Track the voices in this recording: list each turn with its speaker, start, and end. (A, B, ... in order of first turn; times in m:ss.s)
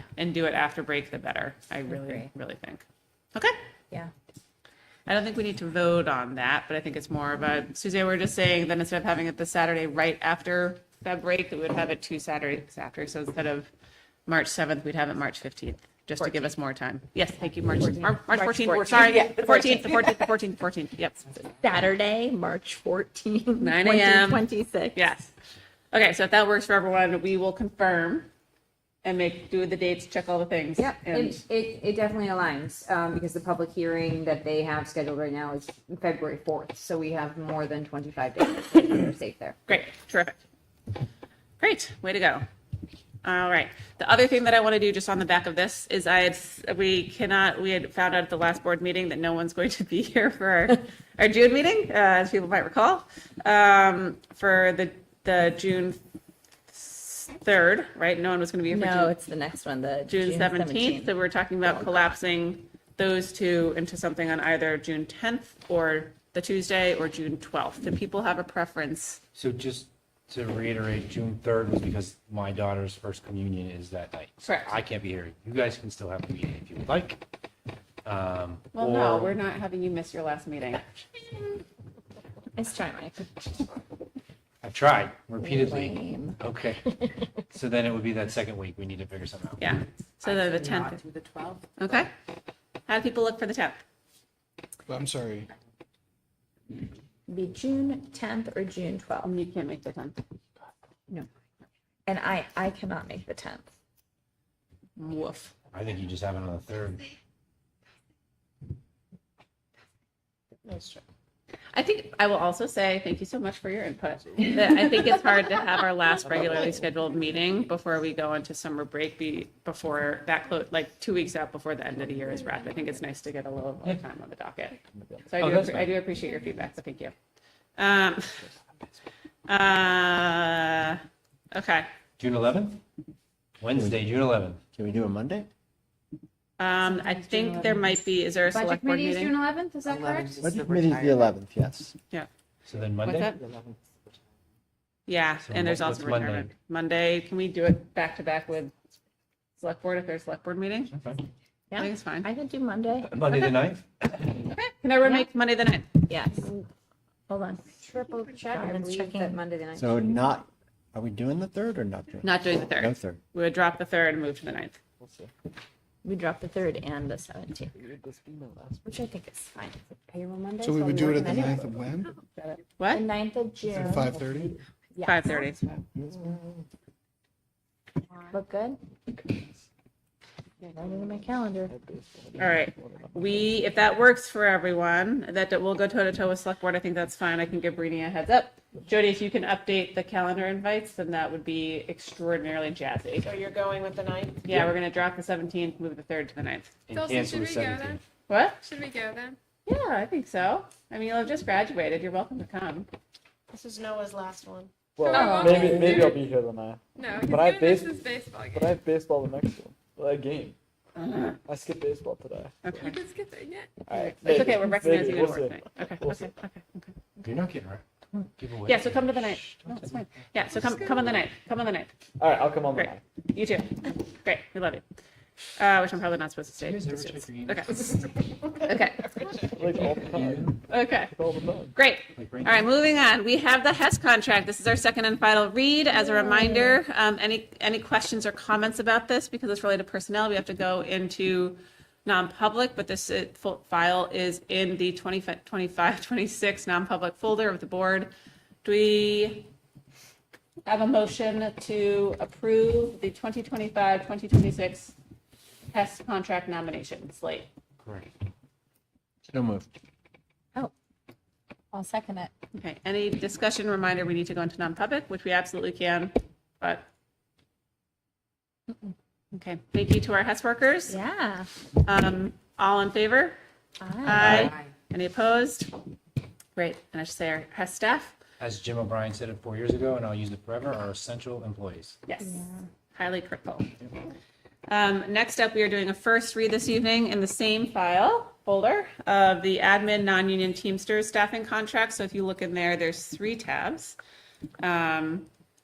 0:00.2-0:02.8 A
0:02.0-0:02.3 B
0:05.1-0:13.7 A
0:14.2-0:21.4 A
0:16.2-0:16.5 B
0:17.8-0:20.0 B
0:21.6-0:25.1 B
0:23.6-0:25.3 A
0:25.9-0:28.3 A
0:29.0-0:31.4 A
0:30.8-0:39.6 C
0:39.7-0:40.4 A
0:41.6-0:42.4 A
0:43.2-0:56.0 A
0:56.7-0:59.1 A
0:58.7-1:02.1 B
1:00.1-1:09.2 A
1:09.3-1:17.2 D
1:14.4-1:14.7 A
1:18.0-1:19.4 D
1:18.7-1:21.0 A
1:22.6-1:23.4 B
1:24.6-1:26.9 D
1:25.4-1:26.4 B
1:27.5-1:29.6 D
1:29.6-1:31.0 A
1:30.2-1:31.7 E
1:31.8-1:32.1 A
1:32.9-1:33.8 A
1:34.9-1:35.4 F
1:37.3-1:39.3 B
1:39.2-1:40.2 A
1:42.1-1:43.7 B
1:45.0-1:45.5 A
1:45.7-1:47.1 D
1:50.7-1:51.0 E
1:51.7-2:04.8 A
2:04.9-2:05.3 G
2:05.3-2:07.1 A
2:05.4-2:06.0 D
2:07.8-2:08.5 A
2:09.5-2:11.0 A
2:11.5-2:11.9 A
2:12.2-2:12.8 D
2:13.6-2:14.6 D
2:13.7-2:14.1 H
2:14.7-2:15.5 H
2:16.6-2:19.3 A
2:16.8-2:17.8 B
2:18.5-2:21.3 C
2:20.4-2:21.9 H
2:22.6-2:23.4 D
2:23.0-2:23.4 A
2:25.1-2:28.7 A
2:25.4-2:26.5 D
2:29.6-2:30.9 A
2:30.9-2:31.2 D
2:31.7-2:33.2 B
2:31.8-2:32.3 A
2:33.0-2:34.5 D
2:34.5-2:35.9 A
2:35.0-2:35.3 B
2:36.1-2:36.6 B
2:37.3-2:37.9 B
2:37.8-2:40.2 C
2:38.5-2:39.4 B
2:39.8-2:43.2 H
2:42.2-2:44.8 A
2:45.0-2:45.3 G
2:46.0-2:47.7 B
2:47.7-2:48.9 G
2:48.8-2:50.4 B
2:50.1-2:51.5 C
2:50.6-2:52.1 F
2:50.9-2:51.8 B
2:51.4-2:51.8 G
2:52.8-2:53.0 A
2:52.9-2:55.8 B
2:53.7-2:54.5 F
2:55.0-2:55.6 A
2:58.3-2:58.8 B
2:59.1-2:59.4 G
3:00.6-3:01.7 B
3:01.7-3:03.7 G
3:02.4-3:13.3 A
3:13.2-3:14.4 E
3:14.4-3:16.7 A
3:16.9-3:18.0 D
3:16.9-3:18.0 I
3:18.3-3:18.6 A
3:18.6-3:19.4 I
3:19.6-3:22.9 A
3:23.5-3:24.7 E
3:25.0-3:30.5 G
3:25.0-3:26.2 I
3:25.1-3:25.9 B
3:27.0-3:28.8 I
3:31.0-3:31.4 A
3:31.4-3:32.6 G
3:32.6-3:33.0 A
3:32.7-3:33.7 I
3:33.8-3:36.3 G
3:33.9-3:36.9 A
3:37.2-3:39.8 D
3:38.6-3:41.9 A
3:42.2-3:43.0 G
3:42.7-3:44.8 A
3:45.6-3:48.0 A
3:46.6-3:48.0 D
3:48.5-3:49.2 A
3:49.5-3:51.7 G
3:49.9-3:50.6 D
3:50.7-3:51.1 A
3:51.7-4:08.1 A
3:52.1-3:52.6 D
3:56.0-3:56.7 B
4:08.6-4:09.5 A
4:10.6-4:14.9 A
4:15.7-4:17.5 A
4:17.8-4:18.1 D
4:19.3-4:19.7 D
4:21.7-4:22.3 B
4:22.5-4:26.9 A
4:29.3-4:31.0 A
4:30.9-4:31.5 B
4:31.8-4:33.4 A
4:33.8-4:34.5 B
4:34.0-4:35.7 A
4:36.6-4:38.2 A
4:38.4-4:42.0 D
4:42.1-4:42.4 A
4:42.2-4:42.6 B
4:42.9-4:43.7 A
4:44.7-4:54.0 A
4:54.6-4:55.3 A